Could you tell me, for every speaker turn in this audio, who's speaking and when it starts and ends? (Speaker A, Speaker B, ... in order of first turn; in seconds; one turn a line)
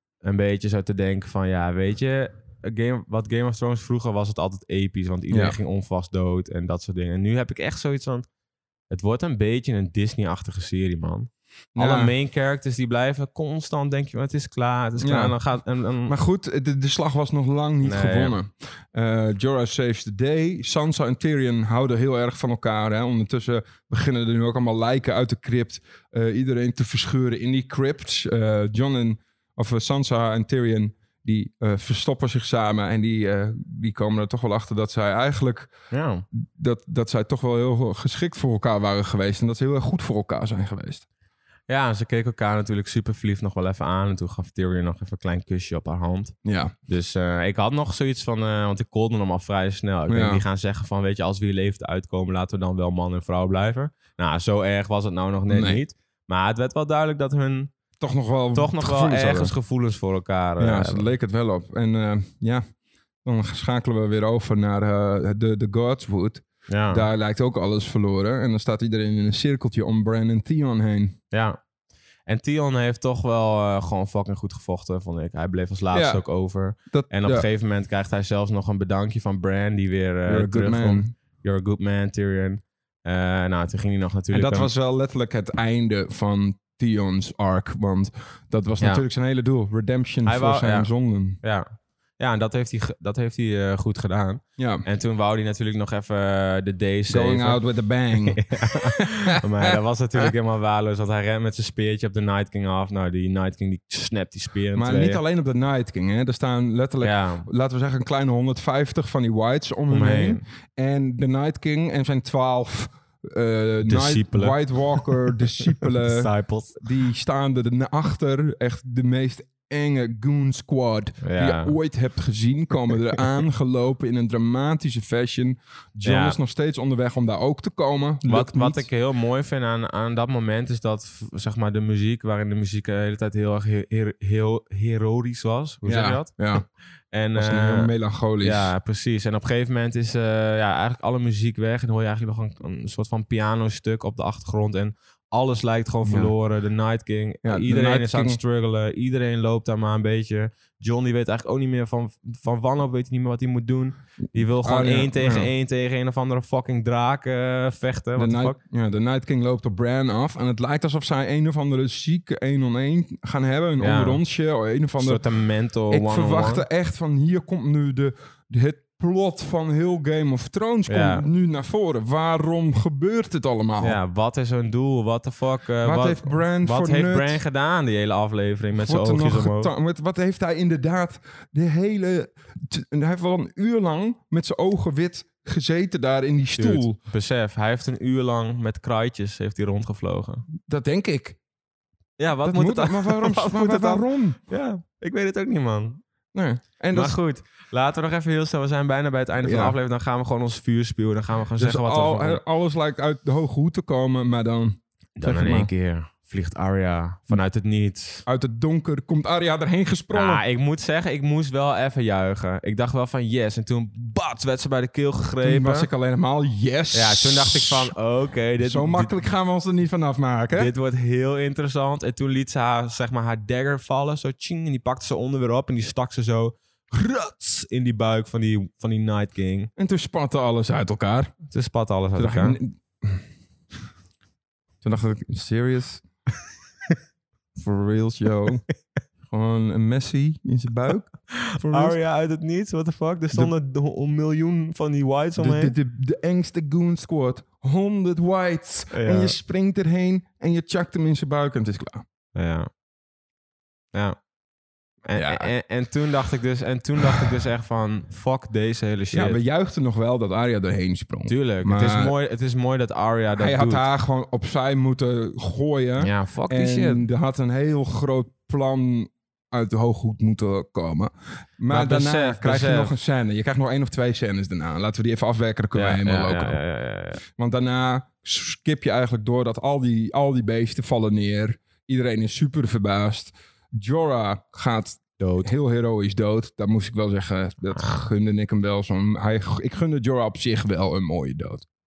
Speaker A: 0.2-8.2
Speaker B: 5.3-5.6
Speaker A: 8.9-16.1
Speaker B: 11.7-12.1
Speaker B: 15.0-15.4
Speaker B: 16.1-35.7
Speaker A: 17.8-18.4
Speaker A: 35.9-36.2
Speaker B: 36.3-41.0
Speaker A: 41.7-46.3
Speaker B: 46.4-46.7
Speaker A: 46.9-57.7
Speaker B: 50.1-50.4
Speaker B: 55.5-55.8
Speaker B: 58.0-59.5
Speaker A: 58.5-61.1
Speaker B: 60.6-62.6
Speaker B: 63.2-71.2
Speaker A: 66.7-67.1
Speaker A: 71.3-71.6
Speaker A: 72.3-84.7
Speaker B: 75.9-76.2
Speaker B: 76.9-77.5
Speaker B: 80.3-81.1
Speaker B: 84.3-91.4
Speaker A: 90.2-90.9
Speaker A: 91.4-91.7
Speaker A: 92.2-97.6
Speaker B: 94.6-94.8
Speaker B: 97.1-100.3
Speaker A: 98.2-105.2
Speaker B: 104.7-128.8
Speaker A: 107.0-107.5
Speaker A: 109.9-110.4
Speaker A: 113.8-116.8
Speaker A: 121.2-121.8
Speaker A: 126.0-126.4
Speaker A: 128.3-136.4
Speaker B: 135.8-136.6
Speaker A: 137.1-158.6
Speaker B: 137.3-138.7
Speaker B: 146.0-146.3
Speaker B: 147.4-148.4
Speaker B: 154.6-155.5
Speaker B: 158.2-165.2
Speaker A: 163.8-164.2
Speaker A: 165.0-166.7
Speaker B: 165.9-174.0
Speaker A: 170.9-171.2
Speaker A: 173.8-179.7
Speaker B: 175.8-177.4
Speaker B: 178.7-187.0
Speaker A: 186.6-190.4
Speaker B: 190.7-191.4
Speaker A: 192.2-196.0
Speaker B: 192.4-194.4
Speaker B: 196.3-197.2
Speaker A: 196.9-202.4
Speaker B: 199.4-199.8
Speaker B: 201.6-205.7
Speaker A: 205.2-208.2
Speaker B: 208.3-210.4
Speaker A: 210.1-215.9
Speaker B: 215.4-217.9
Speaker A: 216.9-219.1
Speaker B: 218.6-220.7
Speaker A: 220.5-229.7
Speaker B: 229.8-231.3
Speaker A: 231.5-232.6
Speaker B: 232.2-233.2
Speaker B: 234.8-236.0
Speaker B: 237.6-238.6
Speaker B: 239.3-241.9
Speaker A: 241.3-245.7
Speaker B: 245.4-252.0
Speaker A: 248.9-249.4
Speaker A: 252.3-252.7
Speaker A: 253.9-254.2
Speaker A: 255.0-259.4
Speaker B: 255.2-255.5
Speaker B: 259.1-262.1
Speaker A: 261.2-263.8
Speaker B: 263.4-276.6
Speaker A: 266.0-267.1
Speaker A: 271.7-272.9
Speaker A: 275.7-277.2
Speaker B: 277.2-291.6
Speaker A: 285.2-285.5
Speaker A: 287.7-288.1